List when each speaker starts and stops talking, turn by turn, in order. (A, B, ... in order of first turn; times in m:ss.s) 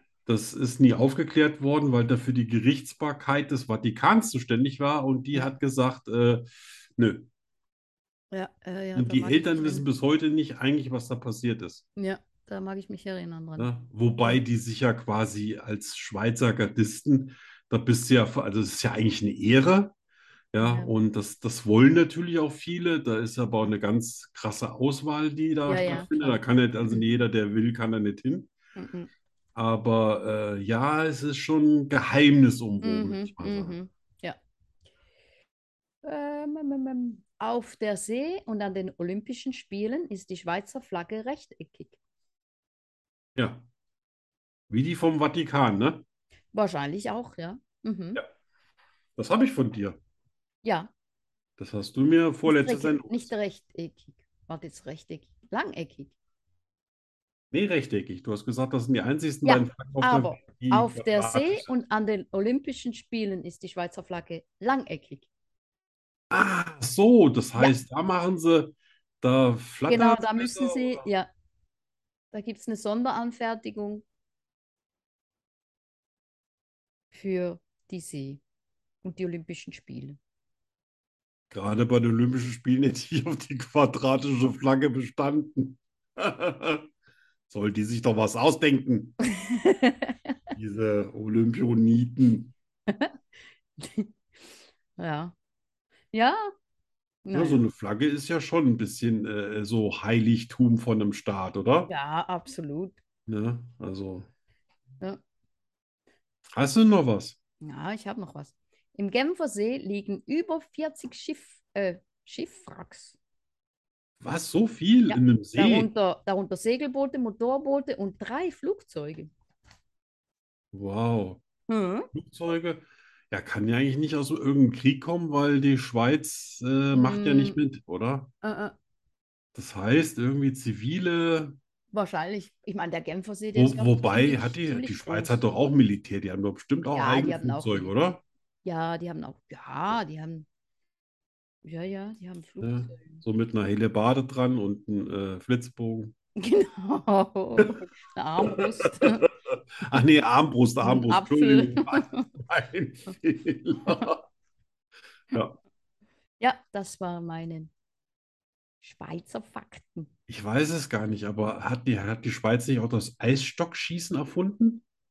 0:00.2-0:07.3 A
0:08.3-0:09.9 B
0:09.0-0:11.8 A
0:12.0-0:14.4 B
0:13.6-0:19.9 A
0:20.5-0:28.5 A
0:20.6-0:20.9 B
0:25.6-0:27.0 B
0:28.8-0:29.1 B
0:29.5-0:33.8 A
0:32.8-0:34.4 B
0:36.0-0:42.0 B
0:43.4-0:43.6 A
0:44.7-0:46.0 A
0:46.5-0:48.2 B
0:49.2-0:50.0 A
0:50.6-0:50.9 B
0:51.6-0:53.3 A
0:52.4-0:56.1 B
0:57.5-1:01.7 A
0:59.4-1:05.3 B
1:06.3-1:11.0 A
1:09.9-1:11.3 B
1:12.3-1:14.0 B
1:17.1-1:18.4 B
1:19.0-1:20.2 B
1:21.5-1:26.9 A
1:27.5-1:29.2 A
1:29.2-1:30.4 B
1:30.6-1:32.5 A
1:32.9-1:33.2 B
1:33.8-1:34.1 B
1:35.0-1:35.3 B
1:36.1-1:36.5 B
1:37.2-1:37.6 B
1:37.3-1:41.9 A
1:41.9-1:43.0 B
1:43.3-1:44.3 A
1:46.5-1:47.4 A
1:47.6-1:53.2 B
1:54.2-1:55.9 A
1:55.1-1:59.3 B
2:00.7-2:01.4 A
2:01.7-2:02.1 B
2:02.1-2:08.3 A
2:06.9-2:07.6 B
2:08.4-2:08.7 B
2:09.5-2:11.6 A
2:11.9-2:15.4 B
2:13.5-2:18.2 A
2:16.9-2:17.9 B
2:18.6-2:20.5 B
2:21.6-2:23.2 B
2:22.6-2:26.1 A
2:26.4-2:29.3 B
2:28.5-2:29.2 A
2:29.8-2:34.2 A
2:30.8-2:32.3 B
2:36.4-2:37.7 B
2:38.8-2:40.1 B
2:40.3-2:44.8 A